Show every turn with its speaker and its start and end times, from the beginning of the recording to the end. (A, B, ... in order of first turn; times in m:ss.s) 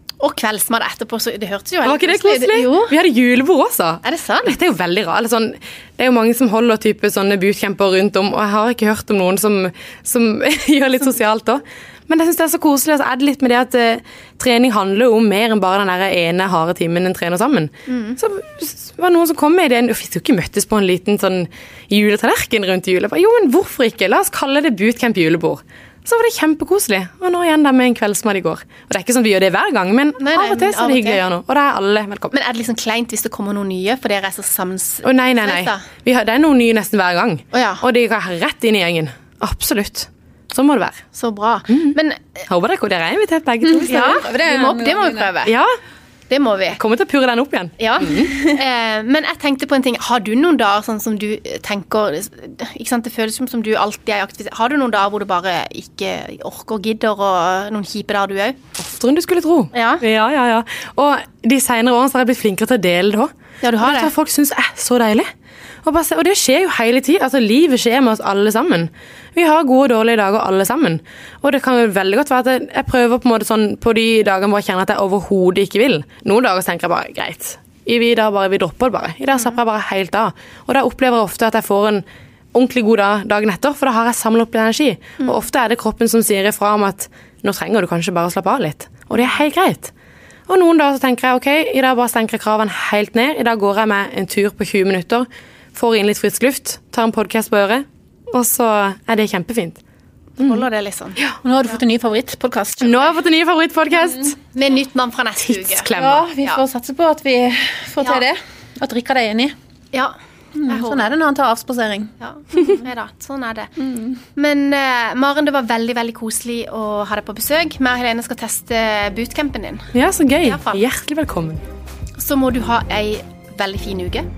0:00.2-0:02.9 A
0:01.8-0:32.3 B
0:04.0-0:04.6 A
0:17.9-0:18.2 A
0:30.2-0:31.2 A
0:32.3-0:35.8 A
0:35.0-0:41.0 B
0:37.5-0:37.8 A
0:41.1-0:42.2 A
0:41.7-0:42.0 B
0:42.5-0:44.2 B
0:43.6-0:45.3 C
0:43.8-0:45.5 A
0:45.4-0:45.7 B
0:46.3-0:46.8 A
0:46.7-0:48.4 B
0:47.8-0:58.6 A
0:58.8-1:05.3 B
0:59.7-1:00.0 A
1:03.6-1:04.1 A
1:05.8-1:29.9 B
1:25.2-1:25.4 A
1:30.5-1:39.8 B
1:40.4-1:41.2 A
1:41.4-1:43.1 C
1:42.8-1:44.4 B
1:44.5-1:45.9 A
1:45.4-1:46.3 B
1:46.0-1:49.6 C
1:49.9-1:51.1 A
1:50.6-1:52.1 C
1:52.2-1:53.7 A
1:53.8-1:54.2 C
1:54.4-2:00.8 A
1:59.9-2:01.6 B
2:02.2-2:04.3 A